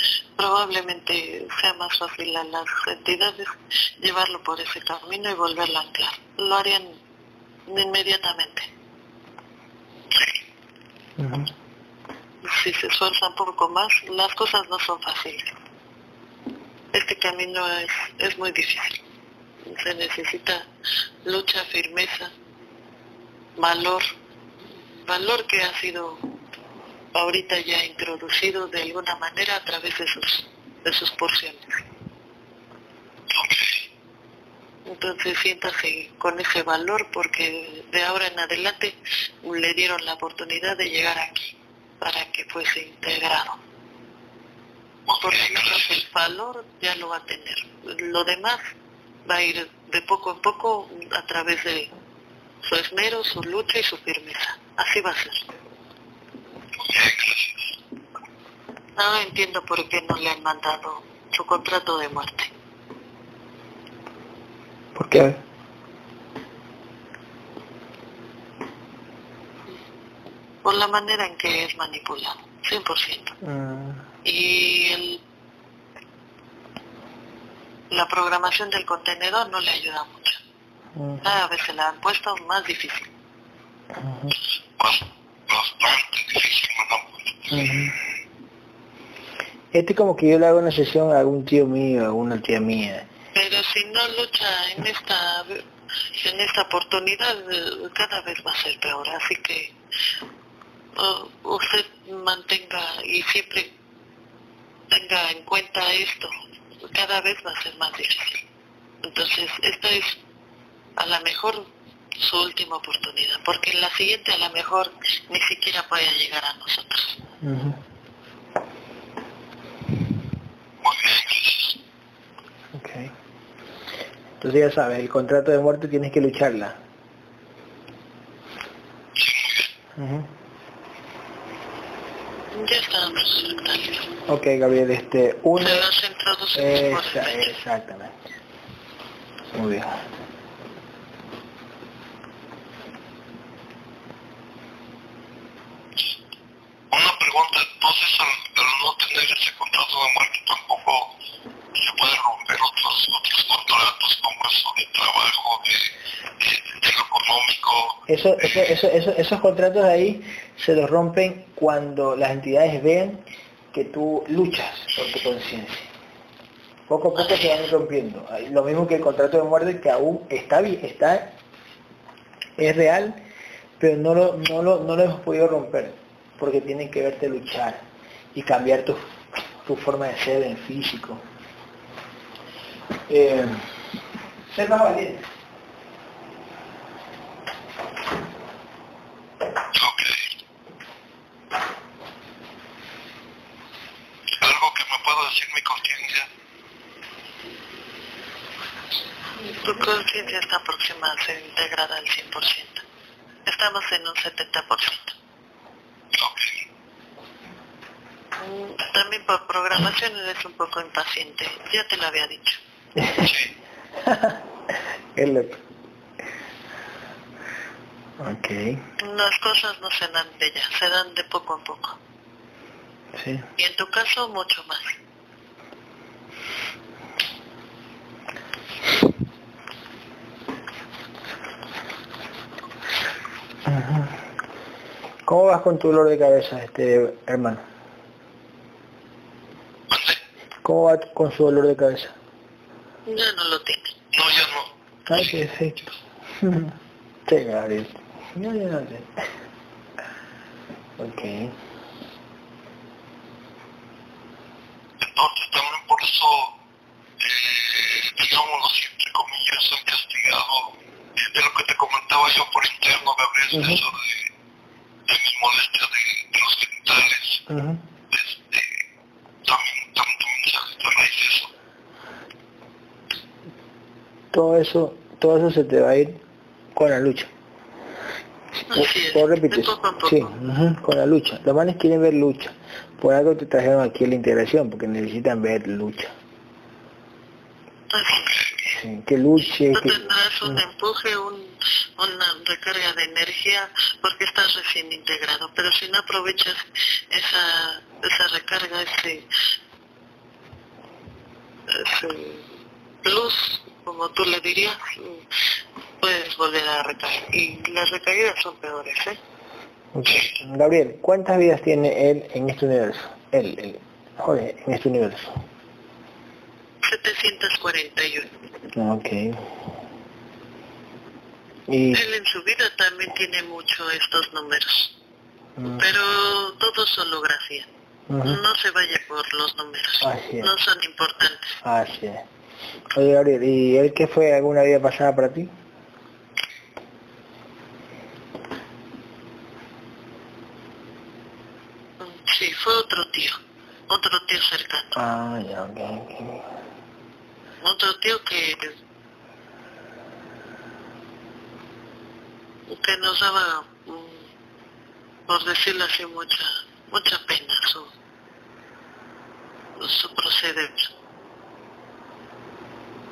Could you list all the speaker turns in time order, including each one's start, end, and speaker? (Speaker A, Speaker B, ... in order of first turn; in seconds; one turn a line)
Speaker A: 0.4-7.0
Speaker A: 7.7-8.7
Speaker B: 11.2-11.5
Speaker A: 12.4-15.5
Speaker A: 16.9-19.0
Speaker A: 19.6-20.7
Speaker A: 21.2-22.3
Speaker A: 23.6-24.1
Speaker A: 25.0-26.3
Speaker A: 27.1-31.8
Speaker C: 33.3-33.9
Speaker A: 34.9-43.6
Speaker C: 45.1-45.9
Speaker A: 45.2-48.6
Speaker A: 49.2-51.9
Speaker A: 52.6-55.5
Speaker C: 56.8-57.8
Speaker A: 59.0-62.5
Speaker B: 64.9-65.4
Speaker A: 70.6-73.3
Speaker B: 73.4-74.0
Speaker A: 74.2-75.2
Speaker A: 77.9-80.4
Speaker B: 80.9-81.2
Speaker A: 81.2-83.1
Speaker B: 84.0-84.3
Speaker C: 84.8-87.6
Speaker B: 87.5-88.0
Speaker B: 89.7-93.0
Speaker A: 93.3-99.7
Speaker A: 101.0-103.7
Speaker A: 104.9-108.4
Speaker A: 109.0-110.2
Speaker A: 111.0-117.1
Speaker B: 117.4-117.8
Speaker C: 120.8-121.8
Speaker B: 122.7-123.1
Speaker B: 124.4-126.8
Speaker C: 129.2-129.7
Speaker B: 129.9-130.3
Speaker A: 132.5-134.1
Speaker B: 134.2-135.9
Speaker A: 135.6-137.5
Speaker B: 136.5-138.2
Speaker B: 139.4-140.0
Speaker C: 146.9-151.1
Speaker C: 151.7-158.0
Speaker B: 158.1-165.9
Speaker B: 166.9-171.4
Speaker A: 167.2-167.5
Speaker B: 172.6-173.2
Speaker B: 173.8-177.8
Speaker B: 178.3-181.2
Speaker B: 183.1-183.7
Speaker B: 184.5-185.3
Speaker C: 189.7-190.3
Speaker C: 194.4-196.3
Speaker A: 199.5-202.8
Speaker A: 203.4-205.2
Speaker C: 206.1-206.6
Speaker A: 208.4-212.6
Speaker B: 212.9-213.3
Speaker B: 214.0-214.4
Speaker B: 215.1-215.6
Speaker B: 218.2-218.8
Speaker A: 219.0-222.0
Speaker B: 223.1-223.4
Speaker A: 223.6-225.0
Speaker B: 233.6-234.2
Speaker B: 235.2-237.6
Speaker C: 239.9-240.2
Speaker B: 240.6-242.1
Speaker A: 243.1-243.9
Speaker C: 244.1-244.7
Speaker B: 245.1-249.3
Speaker B: 251.0-251.6
Speaker C: 255.0-256.5
Speaker C: 257.2-264.3
Speaker B: 263.5-263.8
Speaker C: 265.1-267.4
Speaker B: 267.5-267.8
Speaker C: 268.1-268.8
Speaker C: 269.4-271.5
Speaker B: 274.3-276.2
Speaker B: 276.7-277.3
Speaker B: 278.6-286.1
Speaker A: 278.7-280.4
Speaker A: 287.9-288.7
Speaker B: 288.7-290.6
Speaker A: 289.7-299.2
Speaker A: 301.7-302.5
Speaker A: 303.0-305.2
Speaker A: 306.0-309.2
Speaker B: 309.9-315.4
Speaker A: 316.8-318.3
Speaker B: 318.7-319.5
Speaker B: 321.7-322.0
Speaker A: 321.9-324.9
Speaker B: 325.6-325.9
Speaker A: 325.8-327.7
Speaker B: 328.1-328.4
Speaker A: 328.2-331.6
Speaker B: 330.0-330.5
Speaker B: 331.6-332.2
Speaker B: 332.9-335.5
Speaker A: 342.0-343.4
Speaker A: 343.9-345.1
Speaker B: 344.9-346.5
Speaker A: 347.6-348.8
Speaker A: 352.7-354.3
Speaker A: 355.3-357.9
Speaker A: 359.8-360.9